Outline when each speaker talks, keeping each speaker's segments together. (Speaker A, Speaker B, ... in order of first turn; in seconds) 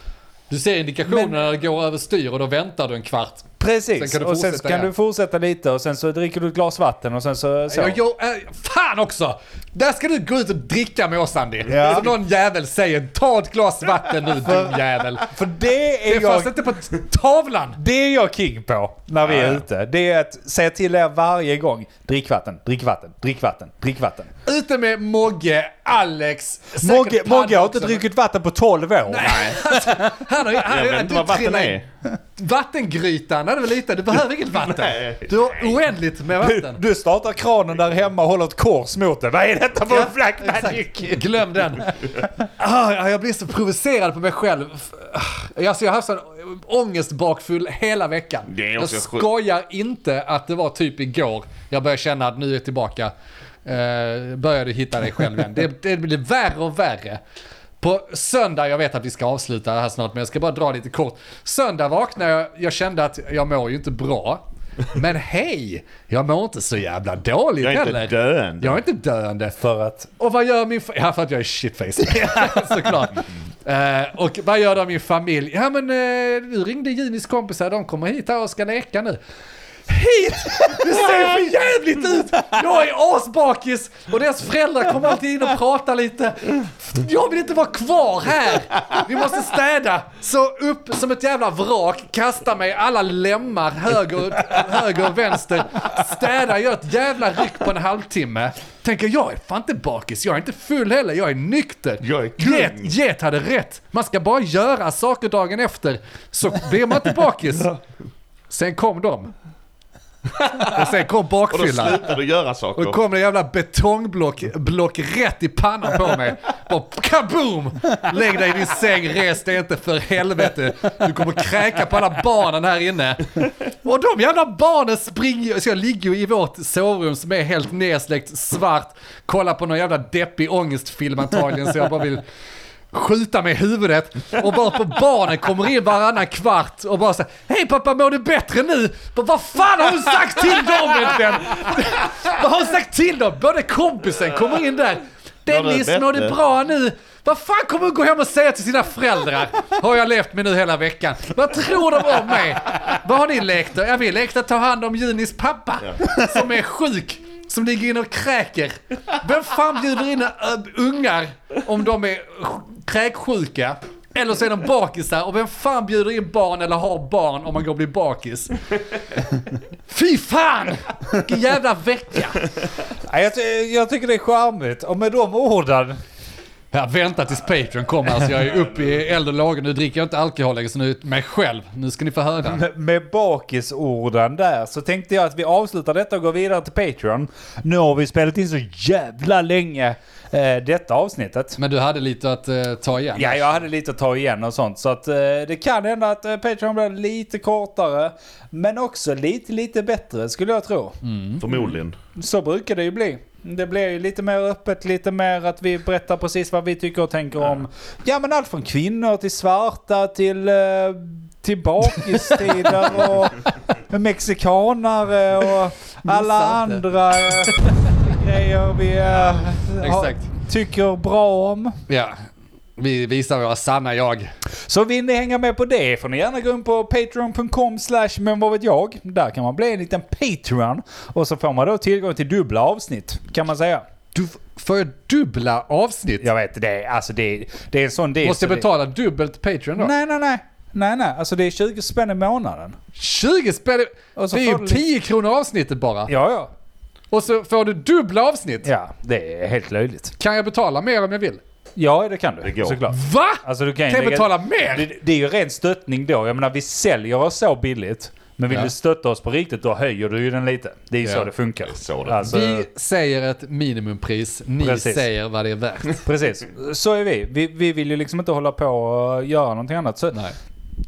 Speaker A: 0.5-4.9, 7.7-15.3, 16.1-17.8, 24.4-28.0, 29.1-31.8, 32.4-36.8, 39.9-53.1, 53.6-57.2, 57.8-69.6, 70.2-79.2, 79.9-107.7, 108.5-109.3, 110.4-112.1, 112.8-132.2, 132.9-168.6, 169.2-172.4, 176.7-182.6, 191.6-193.6, 201.0-201.6, 212.2-212.9, 216.0-218.0, 219.8-220.3, 221.9-222.2, 222.8-224.3, 234.1-236.3, 238.2-239.9, 242.9-246.1, 247.1-248.7, 250.2-251.4, 252.9-254.9, 261.0-261.3, 262.2-266.0
Speaker B: 1.1-1.4, 3.6-8.0, 11.7-12.1, 15.3-16.5, 17.8-24.3, 26.8-30.3, 36.4-41.3, 69.6-70.1, 72.1-72.8, 172.9-176.0, 182.4-191.6, 193.1-201.0, 202.2-221.8, 224.6-233.9, 236.2-238.7, 239.8-242.8, 244.2-244.8, 246.1-246.5, 248.6-250.1, 251.8-262.7, 264.6-265.1, 266.0-270.2
Speaker C: 19.3-19.6, 29.2-29.6, 30.6-31.9, 34.6-35.8, 48.5-49.3, 67.6-68.8, 102.0-102.9, 111.5-113.0, 145.5-146.4, 201.4-202.0, 252.4-252.8, 261.7-262.3